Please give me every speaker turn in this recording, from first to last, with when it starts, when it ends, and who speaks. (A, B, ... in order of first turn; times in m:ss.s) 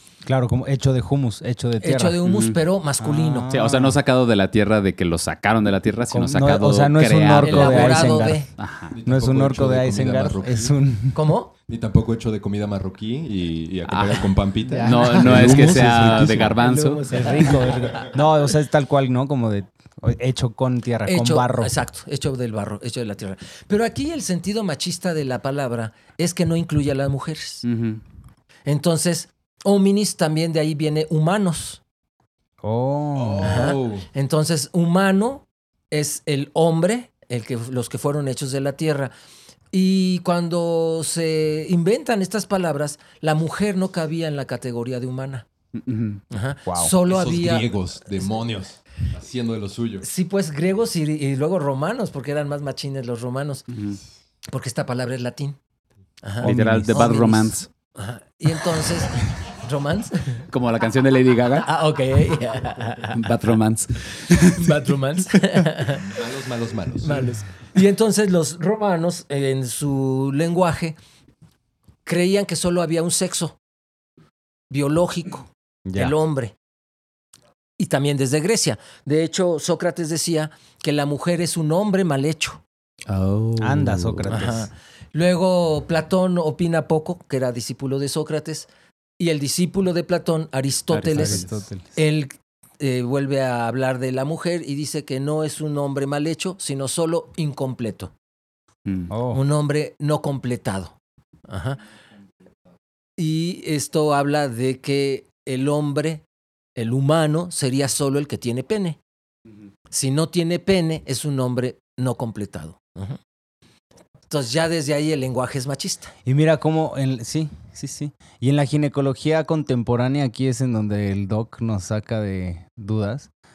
0:00.2-0:02.2 A
0:01.8-0:03.5 B
0:02.2-0:02.6 C
0:03.0-0:04.0 A
0:03.5-0:09.0 C
0:06.1-0:11.2 A
0:07.4-0:08.5 B
0:08.9-0:10.8 D
0:11.1-0:11.5 B
0:11.7-0:16.7 D
0:13.9-0:17.4 C
0:14.6-0:16.0 A
0:16.6-0:18.1 B
0:17.1-0:21.8 A
0:21.0-0:27.6 B
0:27.6-0:28.0 C
0:28.6-0:31.8 B
0:32.6-0:33.8 A
0:33.2-0:34.1 D
0:33.4-0:39.1 B
0:39.7-0:45.4 B
0:45.7-0:46.2 C
0:46.3-0:48.4 B
0:46.6-0:46.9 A
0:47.0-0:50.0 D
0:50.0-0:53.7 B
0:53.7-0:54.0 C
0:54.5-0:55.6 B
0:56.2-1:00.4 B
0:56.4-0:57.0 A
0:56.4-0:57.7 C
1:00.5-1:01.7 C
1:01.6-1:03.2 B
1:03.1-1:04.7 C
1:04.5-1:06.0 B
1:06.0-1:07.3 D
1:07.0-1:11.0 B
1:12.0-1:13.6 B
1:14.7-1:16.5 B
1:15.9-1:16.1 A
1:17.8-1:22.6 B
1:23.1-1:24.3 C
1:23.6-1:24.7 A
1:24.3-1:28.7 B
1:29.2-1:31.4 B
1:30.9-1:31.6 C
1:31.2-1:31.9 A
1:31.9-1:38.1 B
1:38.8-1:39.1 C
1:39.1-1:39.4 A
1:39.3-1:41.0 B
1:41.5-1:41.8 B
1:43.2-1:46.2 B
1:46.8-1:49.0 B
1:49.9-1:53.2 B
1:54.3-1:56.1 B
1:56.2-2:03.3 A